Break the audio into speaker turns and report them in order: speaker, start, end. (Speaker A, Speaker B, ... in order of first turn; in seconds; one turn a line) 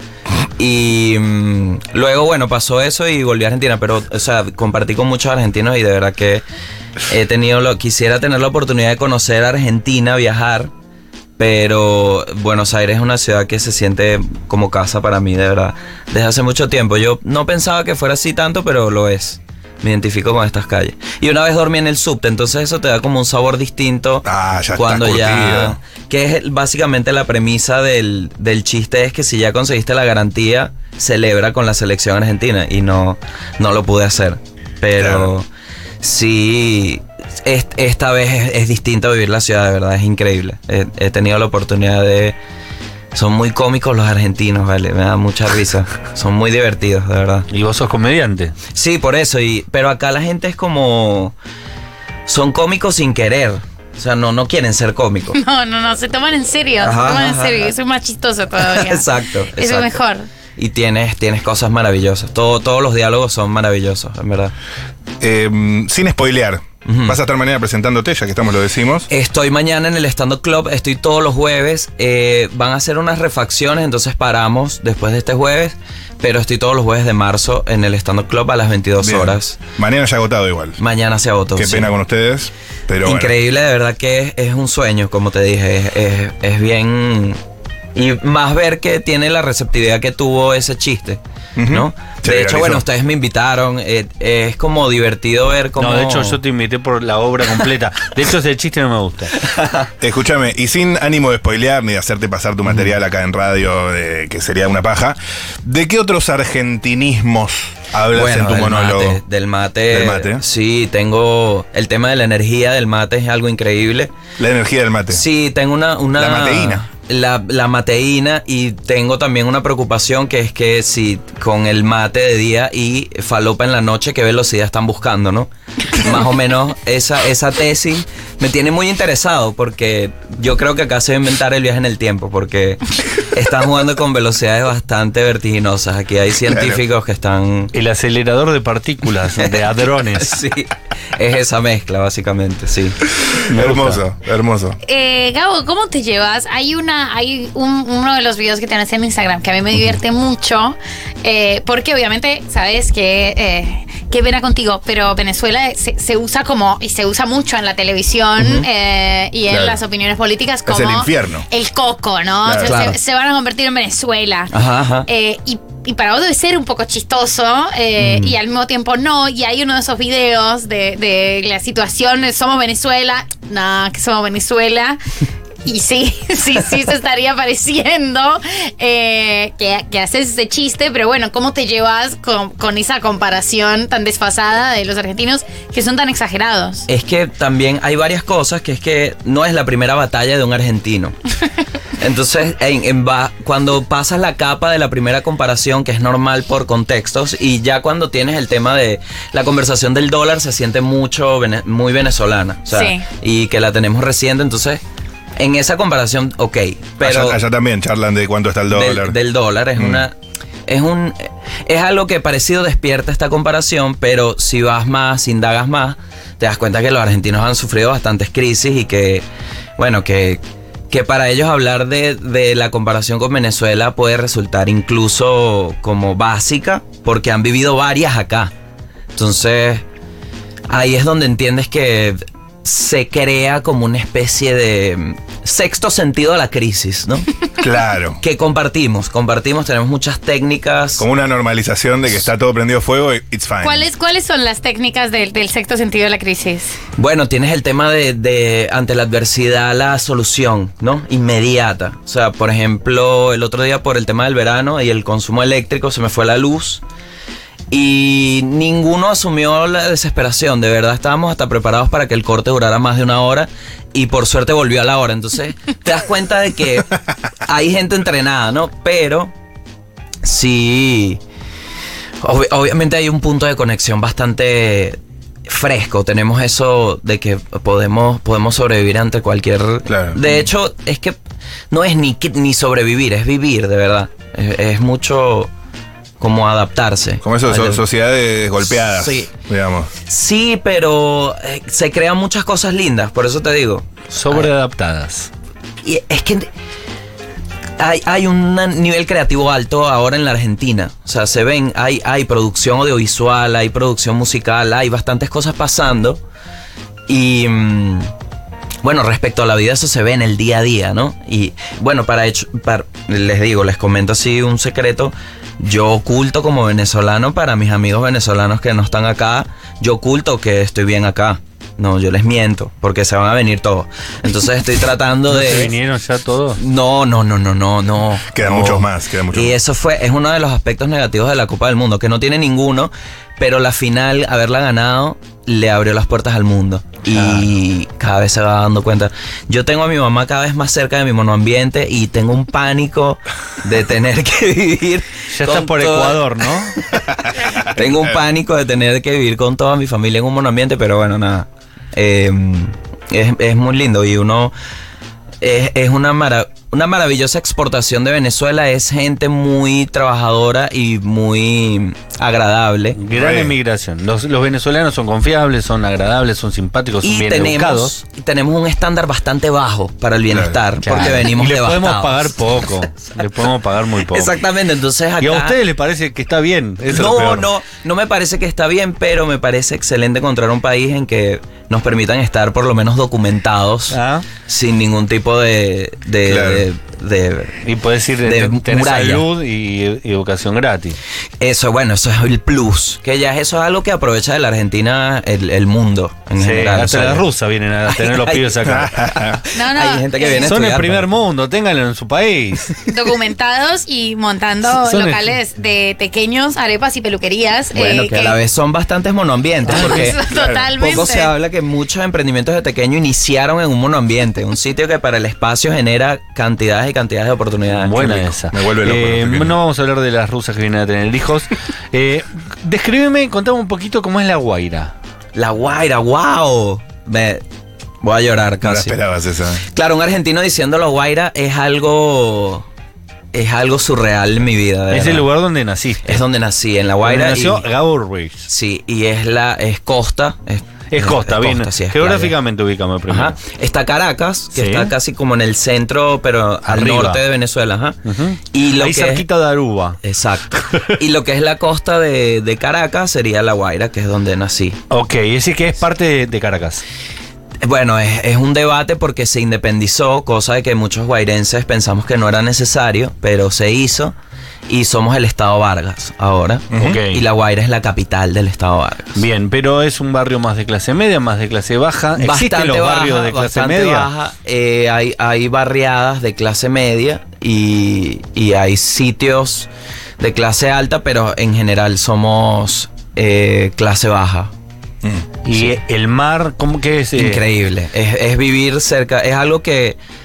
Speaker A: 0.6-6.4
Speaker A: 7.1-10.7
Speaker A: 11.4-35.5
Speaker B: 24.2-25.8
Speaker B: 35.0-35.3
Speaker A: 36.0-42.4
Speaker A: 43.1-47.5
Speaker C: 47.5-48.5
Speaker A: 48.7-51.4
Speaker A: 52.3-55.4
Speaker D: 55.3-60.3
Speaker A: 56.8-57.7
Speaker A: 58.6-60.0
Speaker A: 60.6-64.5
Speaker B: 65.2-69.1
Speaker A: 66.9-67.2
Speaker A: 69.1-79.6
Speaker B: 79.0-80.8
Speaker A: 80.8-81.9
Speaker B: 81.6-83.3
Speaker A: 83.0-87.4
Speaker A: 88.0-96.4
Speaker B: 91.6-92.8
Speaker C: 95.8-99.4
Speaker A: 99.4-99.9
Speaker B: 100.0-109.2
Speaker A: 108.1-114.1
Speaker B: 109.9-110.4
Speaker B: 114.4-115.2
Speaker A: 115.1-137.7
Speaker B: 116.2-116.8
Speaker B: 136.5-136.8
Speaker C: 137.7-140.4
Speaker A: 140.2-143.0
Speaker B: 143.3-144.8
Speaker C: 143.5-144.0
Speaker D: 144.8-164.5
Speaker A: 158.4-158.7
Speaker B: 159.5-159.8
Speaker B: 160.7-161.5
Speaker B: 162.4-162.8
Speaker A: 162.6-163.0
Speaker A: 164.5-165.1
Speaker D: 165.1-175.0
Speaker A: 168.0-168.4
Speaker D: 175.7-186.9
Speaker A: 186.9-191.2
Speaker A: 192.0-204.8
Speaker D: 202.7-203.1
Speaker A: 205.4-207.4
Speaker B: 207.0-209.2
Speaker A: 208.7-210.2
Speaker B: 209.8-210.0
Speaker A: 210.7-219.2
Speaker A: 219.8-228.5
Speaker A: 229.1-229.8
Speaker A: 230.7-237.3
Speaker B: 237.6-238.2
Speaker A: 238.2-241.1
Speaker B: 241.0-243.9
Speaker D: 243.6-246.8
Speaker A: 247.0-256.8
Speaker A: 257.7-269.3
Speaker A: 270.2-271.2
Speaker A: 272.2-281.2
Speaker B: 279.9-280.4
Speaker A: 281.7-285.5
Speaker A: 286.2-287.8
Speaker B: 287.2-289.9
Speaker A: 288.7-289.3
Speaker A: 290.0-294.5
Speaker C: 294.1-295.3
Speaker A: 295.8-296.5
Speaker A: 297.8-306.2
Speaker A: 307.1-308.1
Speaker A: 308.8-325.7
Speaker C: 325.3-326.6
Speaker A: 326.6-354.5
Speaker B: 328.3-329.6
Speaker C: 345.3-346.8
Speaker A: 355.4-363.0
Speaker C: 363.0-367.9
Speaker B: 363.1-363.6
Speaker A: 367.0-372.3
Speaker B: 370.3-370.6
Speaker C: 370.8-374.4
Speaker A: 374.1-375.6
Speaker C: 375.2-377.5
Speaker A: 376.9-387.6
Speaker C: 383.9-384.2
Speaker B: 386.3-386.6
Speaker C: 387.6-391.0
Speaker A: 388.2-389.3
Speaker A: 391.4-397.3
Speaker C: 396.4-398.9
Speaker A: 397.9-401.1
Speaker B: 398.6-399.4
Speaker D: 399.5-400.5
Speaker C: 400.3-402.8
Speaker D: 402.8-408.4
Speaker C: 404.7-405.3
Speaker A: 407.7-410.2
Speaker C: 409.7-410.2
Speaker D: 409.7-411.3
Speaker B: 410.3-410.7
Speaker A: 410.8-418.3
Speaker C: 417.8-424.9
Speaker B: 418.5-419.6
Speaker A: 425.4-427.4
Speaker A: 428.0-429.0
Speaker B: 428.6-429.6
Speaker A: 429.7-432.7
Speaker A: 433.3-435.3
Speaker C: 434.9-436.2
Speaker A: 436.1-437.7
Speaker C: 437.0-438.5
Speaker A: 438.5-442.4
Speaker C: 440.9-443.4
Speaker A: 443.1-448.0
Speaker C: 444.5-444.9
Speaker C: 446.7-447.2
Speaker C: 448.1-450.0
Speaker A: 448.5-449.3
Speaker A: 450.0-454.8
Speaker C: 450.5-450.9
Speaker C: 454.9-456.8
Speaker A: 457.6-464.1
Speaker A: 464.7-469.2
Speaker B: 466.7-467.0
Speaker C: 466.8-467.2
Speaker C: 469.2-474.1
Speaker A: 472.2-479.7
Speaker A: 480.2-484.5
Speaker C: 485.4-487.4
Speaker A: 487.2-490.0